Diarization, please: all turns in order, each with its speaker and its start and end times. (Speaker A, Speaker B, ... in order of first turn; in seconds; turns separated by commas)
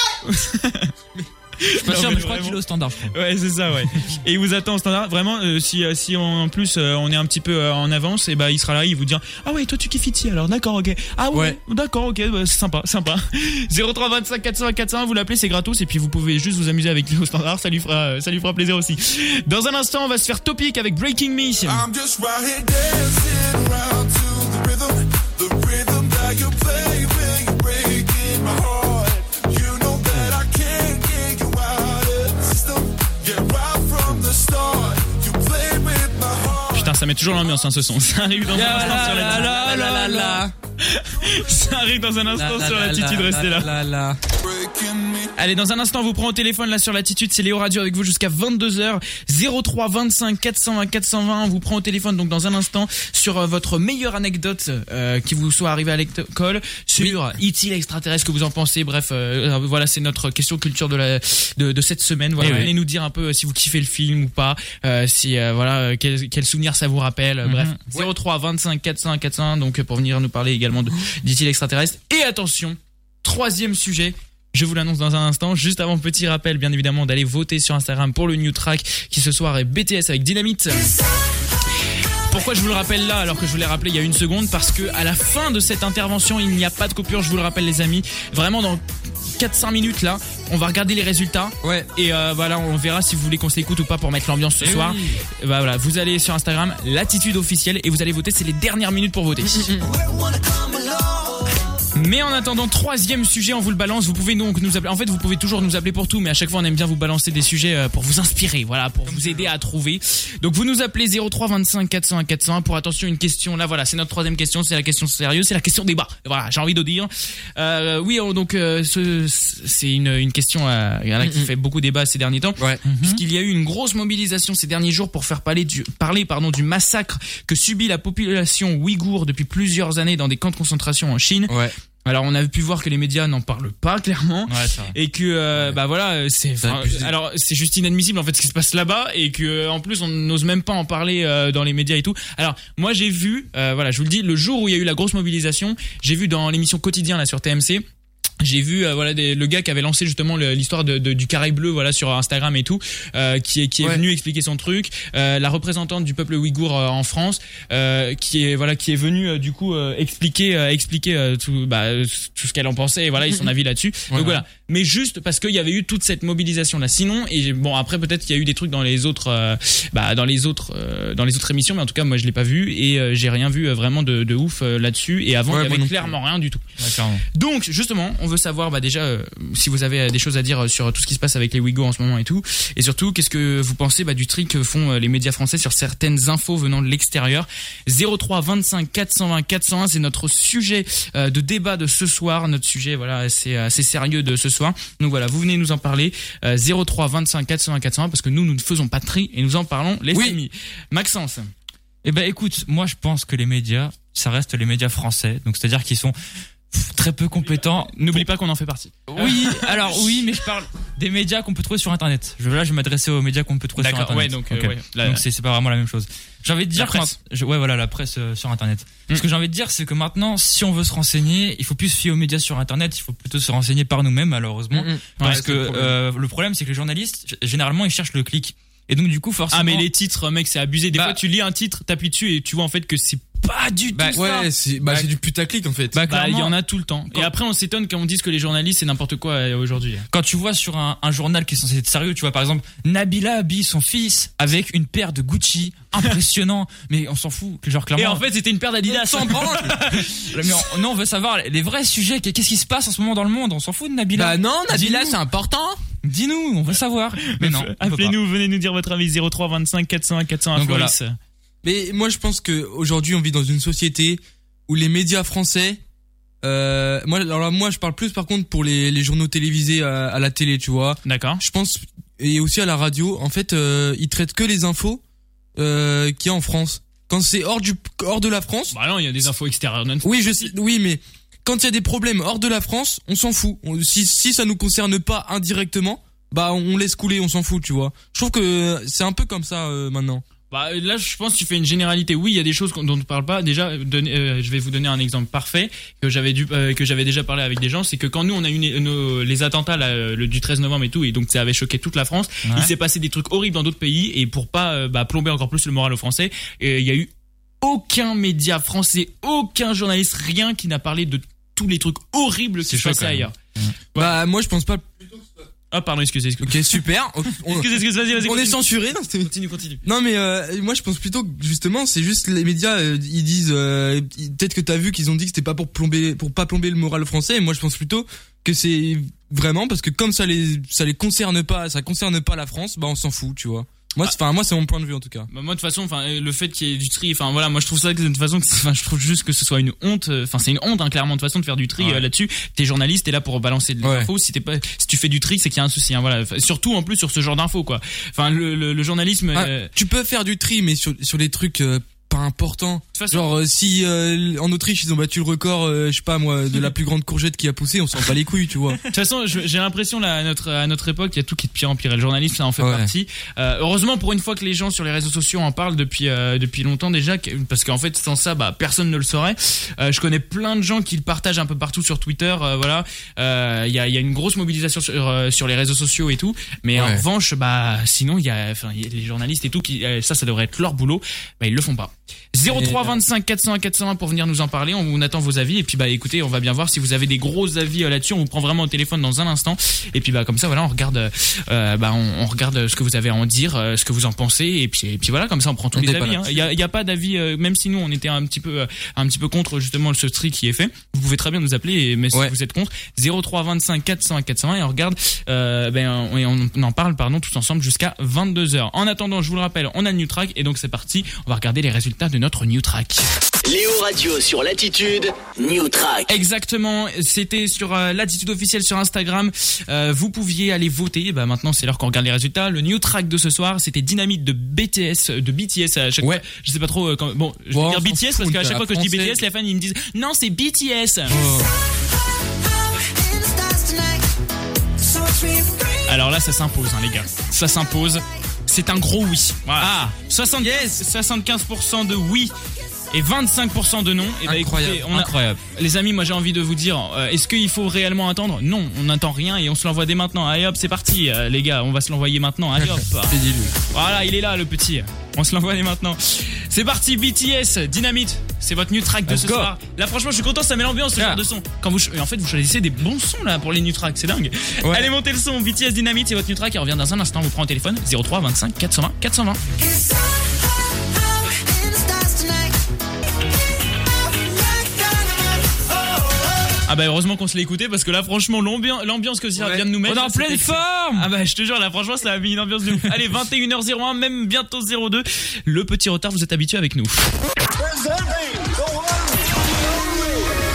Speaker A: 0.2-0.9, Speaker A: 1.6-2.6, Speaker B: 1.8-3.1, Speaker A: 3.1-21.9, Speaker C: 11.3-11.6, Speaker D: 22.2-24.9, Speaker D: 25.4-25.9, Speaker D: 26.6-36.3, Speaker A: 36.7-43.7, Speaker C: 38.5-40.5, Speaker C: 42.4-44.2, Speaker A: 45.4-80.9, Speaker B: 62.4-62.7, Speaker C: 62.4-62.7, Speaker B: 67.4-67.8, Speaker A: 82.3-88.8, Speaker A: 89.4-99.8, Speaker C: 91.6-91.9, Speaker B: 94.6-95.0, Speaker C: 99.5-99.8, Speaker D: 99.8-101.6, Speaker A: 101.9-131.5, Speaker C: 121.2-121.5, Speaker B: 122.8-123.2, Speaker C: 131.5-131.7, Speaker A: 132.0-147.8, Speaker B: 134.5-134.9, Speaker C: 136.6-137.1, Speaker A: 148.4-176.6, Speaker C: 164.1-164.4, Speaker C: 175.5-176.1, Speaker B: 176.8-177.2, Speaker A: 177.3-201.5, Speaker C: 200.1-200.4, Speaker B: 202.0-206.1, Speaker B: 206.7-208.2, Speaker A: 207.9-210.0, Speaker B: 209.1-229.8, Speaker A: 213.8-215.2, Speaker A: 216.7-217.1, Speaker C: 224.7-225.9, Speaker A: 225.2-225.4, Speaker A: 229.5-234.5, Speaker C: 233.9-236.0, Speaker B: 235.9-236.5, Speaker A: 236.1-240.1, Speaker B: 240.1-248.2, Speaker A: 247.9-250.6, Speaker C: 248.9-249.8, Speaker B: 250.3-255.2, Speaker C: 254.1-255.8, Speaker B: 256.0-258.1, Speaker A: 257.2-261.1, Speaker B: 260.6-260.9, Speaker C: 261.6-265.8, Speaker C: 266.4-275.0, Speaker A: 271.1-271.4, Speaker C: 275.6-278.7, Speaker A: 278.7-280.5, Speaker C: 280.0-290.2, Speaker A: 290.5-307.1, Speaker B: 302.4-302.7, Speaker A: 307.6-313.3, Speaker B: 312.7-313.7, Speaker C: 313.9-314.9, Speaker A: 315.7-316.8, Speaker C: 316.4-319.3, Speaker A: 317.4-318.6, Speaker A: 319.2-319.8, Speaker C: 319.8-335.3, Speaker A: 335.3-349.7, Speaker C: 343.8-344.1, Speaker C: 349.3-358.8, Speaker A: 352.9-353.2, Speaker A: 358.9-413.1, Speaker C: 362.6-362.9, Speaker C: 376.8-377.0, Speaker C: 382.5-383.0, Speaker C: 395.7-396.4, Speaker E: 413.4-416.1, Speaker A: 416.1-431.2, Speaker C: 427.5-429.2, Speaker C: 431.1-431.5, Speaker D: 431.3-434.1, Speaker D: 434.8-435.8, Speaker A: 435.9-442.3, Speaker A: 442.9-453.1, Speaker C: 444.2-445.1, Speaker B: 444.9-445.4, Speaker C: 452.6-453.5, Speaker A: 453.7-469.4, Speaker C: 459.1-459.5, Speaker C: 464.6-464.9, Speaker D: 469.6-472.6, Speaker D: 474.1-476.3, Speaker A: 476.7-487.1, Speaker B: 479.7-481.1, Speaker D: 487.6-490.3